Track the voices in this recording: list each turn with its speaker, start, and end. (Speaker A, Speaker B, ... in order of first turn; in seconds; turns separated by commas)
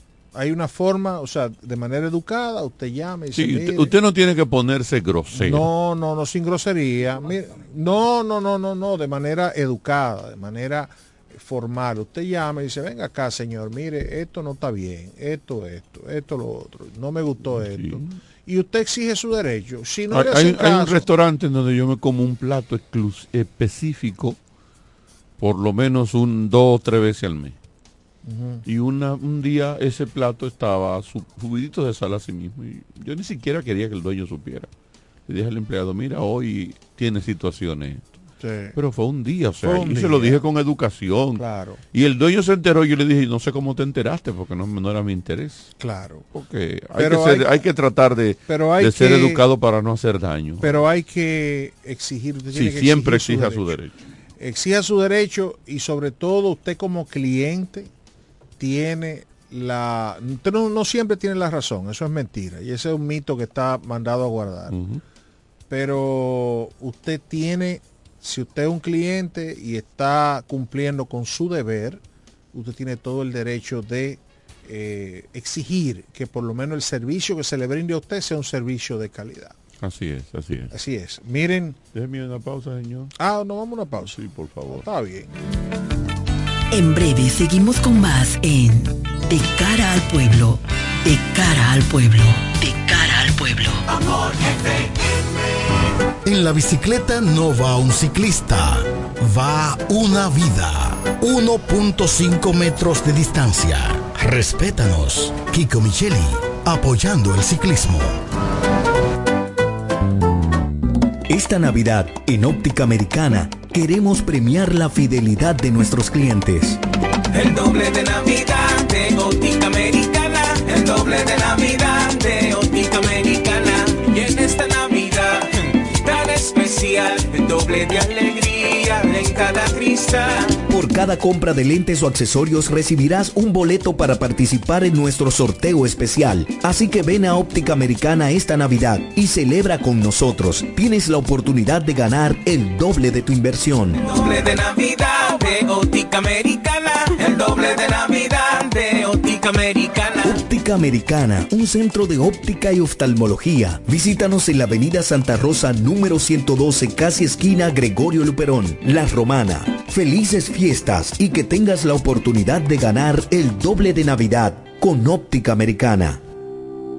Speaker A: 0.3-3.9, Speaker B: 3.3-5.7, Speaker A: 5.3-21.1, Speaker B: 17.4-18.2, Speaker B: 20.1-24.4, Speaker B: 25.4-27.6, Speaker A: 28.2-28.6, Speaker B: 28.6-34.7, Speaker B: 35.3-38.1, Speaker A: 38.4-38.8, Speaker B: 38.7-45.7, Speaker A: 39.6-40.4, Speaker A: 41.4-41.8, Speaker A: 45.8-46.3, Speaker B: 46.3-50.8, Speaker A: 46.9-47.6, Speaker A: 48.5-49.4, Speaker A: 50.6-53.7, Speaker B: 52.5-54.0, Speaker A: 54.4-57.9, Speaker A: 58.6-64.8, Speaker B: 64.7-65.0, Speaker A: 65.7-72.0, Speaker A: 72.5-79.5, Speaker B: 79.8-80.7, Speaker A: 80.7-81.8, Speaker B: 81.9-83.1, Speaker A: 83.2-84.2, Speaker B: 84.0-84.8, Speaker A: 84.7-85.3, Speaker C: 86.7-93.8, Speaker D: 96.2-108.2, Speaker E: 111.3-116.8, Speaker F: 117.3-130.6, Speaker E: 130.7-144.0, Speaker F: 144.0-150.4, Speaker E: 150.2-166.2